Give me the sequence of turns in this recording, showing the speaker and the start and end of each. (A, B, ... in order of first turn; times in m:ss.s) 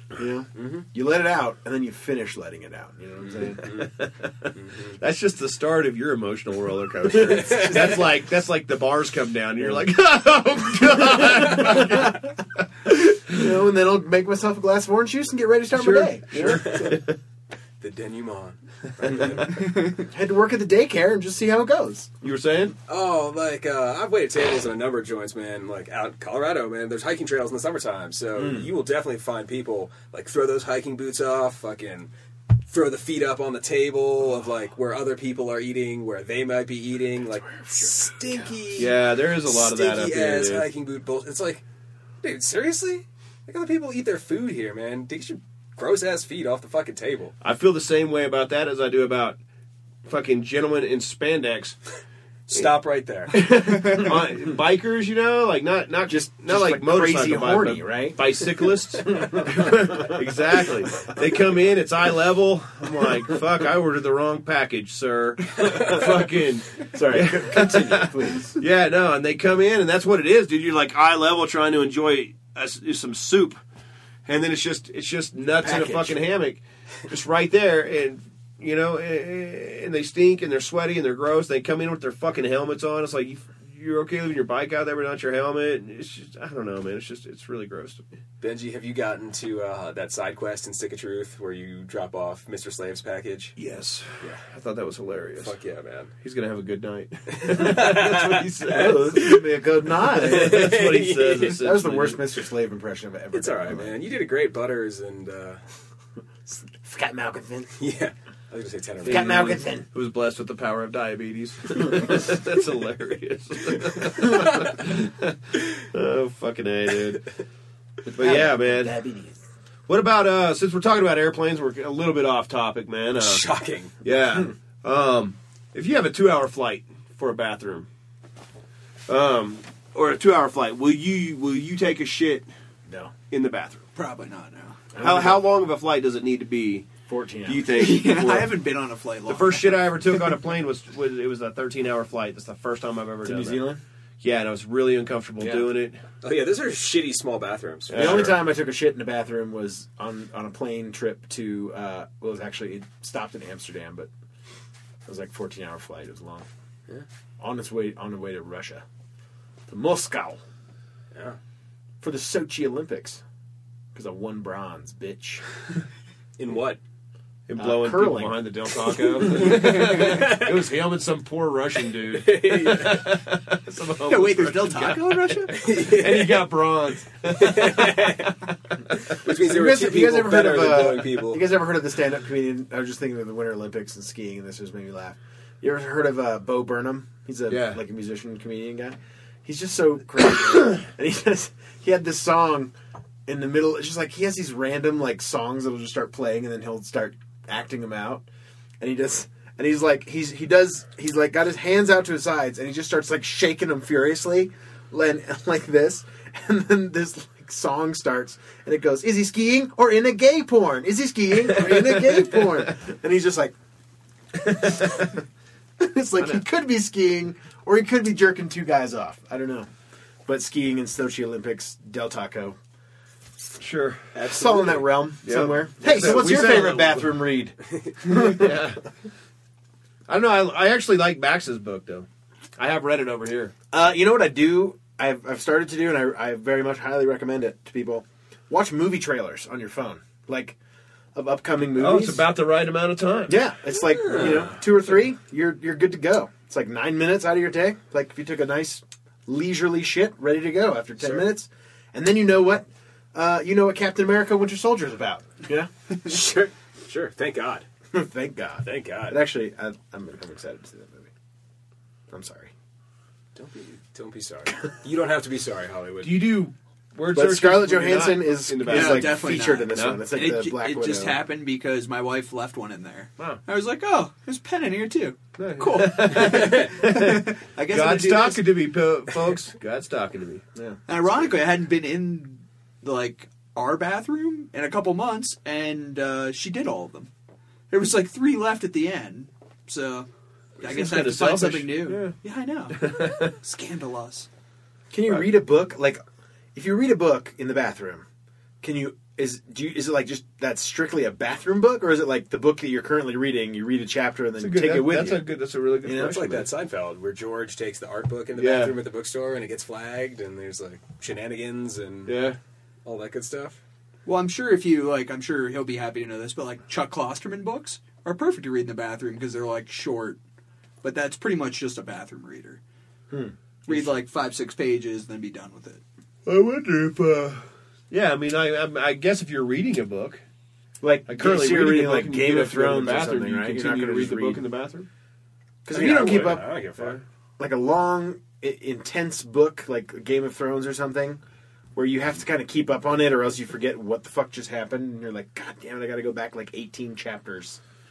0:00.1-0:03.7 A
0:00.6-0:00.8 B
0:03.6-0:13.4 C
0:04.6-0:05.0 B
0:07.2-0:08.0 B
0:07.4-0:07.7 A
0:11.0-0:12.2 A
0:13.2-0:17.0 A
0:15.7-0:17.2 C
0:16.4-0:17.0 B
0:17.8-0:19.9 B
0:19.1-0:22.1 A
0:22.2-0:22.7 C
0:22.9-0:32.1 B
0:28.4-0:28.7 A
0:32.7-0:41.6 B
0:37.5-0:38.5 A
0:38.8-0:40.7 C
0:42.2-0:47.3 B
0:47.4-0:49.4 C
0:50.0-0:51.8 C
0:52.5-0:53.4 B
0:53.3-1:13.6 C
0:53.6-0:54.2 A
0:56.1-1:00.2 A
1:05.8-1:06.1 A
1:06.8-1:08.6 A
1:14.2-1:28.0 C
1:15.6-1:16.3 A
1:28.4-1:33.6 B
1:33.6-1:35.5 C
1:35.4-1:36.1 B
1:36.2-1:39.3 C
1:37.3-1:39.5 B
1:38.7-1:40.8 A
1:40.0-1:41.6 B
1:40.1-1:42.2 C
1:41.6-1:44.0 A
1:43.3-1:45.6 B
1:46.5-1:47.7 A
1:47.8-1:49.6 B
1:49.0-1:49.8 A
1:49.0-1:57.3 C
1:54.2-1:54.5 B
1:58.0-1:59.4 A
1:58.1-1:59.0 C
1:59.9-2:03.4 C
2:03.2-2:03.9 B
2:04.0-2:07.9 C
2:09.1-2:12.5 C
2:12.8-2:13.1 A
2:13.3-2:13.8 C
2:13.9-2:14.8 D
2:14.9-2:15.4 A
2:15.0-2:16.9 C
2:17.1-2:17.7 A
2:17.4-2:18.6 C
2:17.7-2:20.3 D
2:19.3-2:23.6 C
2:23.2-2:23.8 A
2:24.2-2:26.0 C
2:26.2-2:28.3 B
2:27.9-2:28.4 C
2:27.9-2:34.1 A
2:35.0-2:36.4 A
2:37.4-2:38.8 A
2:39.7-2:40.4 A
2:41.1-2:41.4 B
2:42.0-2:43.2 A
2:43.9-2:45.4 A
2:46.4-2:46.8 B
2:47.5-2:58.3 C
2:47.6-2:48.4 A
2:49.2-2:50.7 B
2:52.1-2:53.0 B
2:54.0-2:55.6 D
2:55.5-2:56.6 B
2:57.3-2:58.3 B
2:58.9-2:59.2 C
2:59.1-3:01.5 B
2:59.3-3:12.7 A
3:07.5-3:07.8 C
3:13.3-3:18.2 A
3:18.8-3:33.5 A
3:34.5-3:34.9 C
3:34.6-3:35.1 A
3:35.8-3:39.7 A
3:40.2-3:42.6 A
3:43.6-3:44.0 C
3:44.1-3:44.9 B
3:44.3-3:48.7 A
3:45.2-3:47.2 C
3:46.0-3:46.7 B
3:48.0-3:48.8 C
3:50.1-3:53.5 C
3:53.7-4:00.6 A
4:01.1-4:02.3 A
4:01.8-4:03.4 C
4:03.3-4:15.7 A
4:03.9-4:04.6 B
4:16.0-4:17.6 B
4:17.9-4:21.1 A
4:18.6-4:19.2 B
4:22.1-4:22.5 A
4:23.3-4:26.3 B
4:26.0-4:30.0 C
4:27.1-4:31.2 A
4:28.6-4:38.5 D
4:35.4-4:40.4 C
4:36.2-4:36.7 B
4:40.9-4:47.1 D
4:47.7-4:50.1 D
4:50.6-4:54.3 D
4:50.6-4:52.2 C
4:52.7-4:53.3 C
4:54.9-4:56.0 A
4:56.5-4:58.0 A
4:58.6-5:05.2 A
5:04.4-5:06.5 C
5:05.8-5:06.3 A
5:05.8-5:12.1 B
5:08.4-5:08.7 C
5:12.0-5:12.4 C
5:12.8-5:13.6 B
5:14.0-5:20.2 D
5:20.8-5:22.6 D
5:23.1-5:23.9 A
5:23.7-5:25.8 D
5:26.2-5:30.2 C
5:30.8-5:34.4 A
5:31.1-5:34.9 C
5:35.6-5:36.5 A
5:35.7-5:37.0 B
5:37.4-5:41.2 A
5:41.7-5:47.6 A